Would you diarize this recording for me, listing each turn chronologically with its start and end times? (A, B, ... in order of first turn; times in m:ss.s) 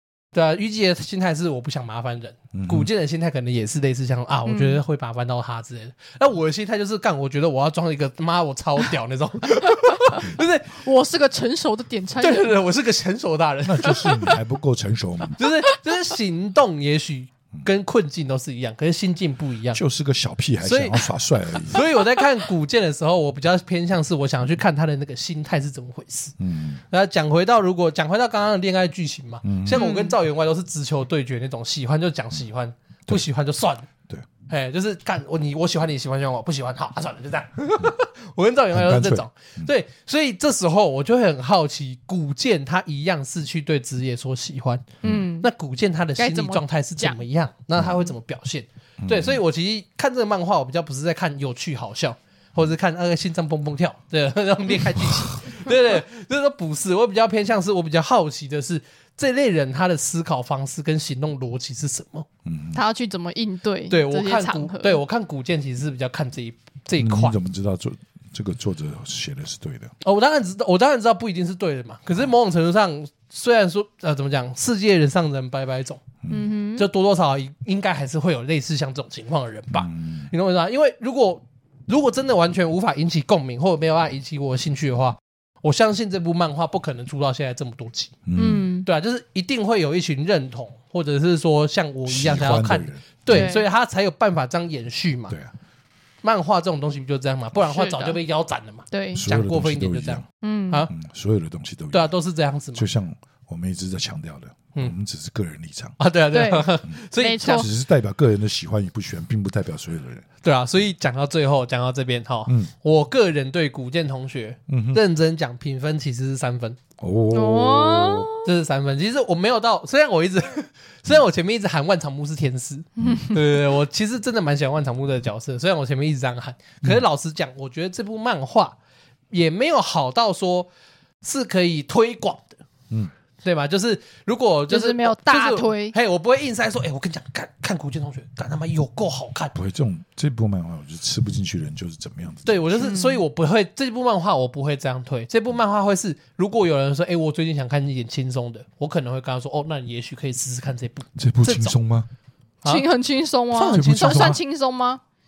0:00.3-0:10.8 A
0:02.5-0:02.9 B
0:04.4-0:04.8 C
0:09.9-0:10.2 C
0:10.8-0:12.6 C
0:12.2-0:14.2 A
0:13.6-0:15.4 B
0:15.4-0:19.8 A
0:19.7-0:21.8 B
0:20.6-0:21.1 A
0:21.6-0:26.4 A
0:26.4-0:26.8 B
0:26.9-0:33.9 A
0:29.4-0:29.8 B
0:29.7-0:30.2 C
0:34.5-1:02.3 A
0:38.7-0:39.7 B
0:45.0-0:45.5 C
0:46.2-0:47.2 C
0:49.0-0:49.4 B
1:02.4-1:02.8 B
1:02.7-1:05.0 C
1:03.9-1:07.4 A
1:07.0-1:09.9 B
1:10.0-1:16.0 A
1:16.2-1:16.5 B
1:16.3-1:16.9 C
1:16.8-1:28.2 A
1:19.7-1:20.3 B
1:28.2-1:28.7 B
1:28.4-1:28.9 C
1:28.8-1:35.3 A
1:32.0-1:33.6 B
1:33.3-1:33.6 C
1:36.2-1:40.9 A
1:37.6-1:38.2 C
1:38.9-1:39.2 C
1:39.1-1:40.2 B
1:40.4-1:40.9 C
1:40.9-1:42.1 B
1:41.9-1:42.9 A
1:42.7-1:46.0 B
1:46.0-1:47.7 A
1:46.3-1:47.7 C
1:47.5-1:50.3 B
1:50.4-1:56.8 A
1:52.5-1:52.7 B
1:54.7-1:55.0 B
1:57.0-1:58.3 B
1:57.3-1:58.5 C
1:58.4-2:08.8 A
2:03.0-2:03.3 C
2:09.3-2:10.7 A
2:11.2-2:12.6 A
2:13.4-2:19.5 A
2:14.7-2:15.9 C
2:19.5-2:22.7 B
2:22.4-2:31.8 A
2:22.8-2:23.2 C
2:31.2-2:32.1 B
2:32.6-2:35.0 C
2:33.5-2:34.4 A
2:33.7-2:34.4 B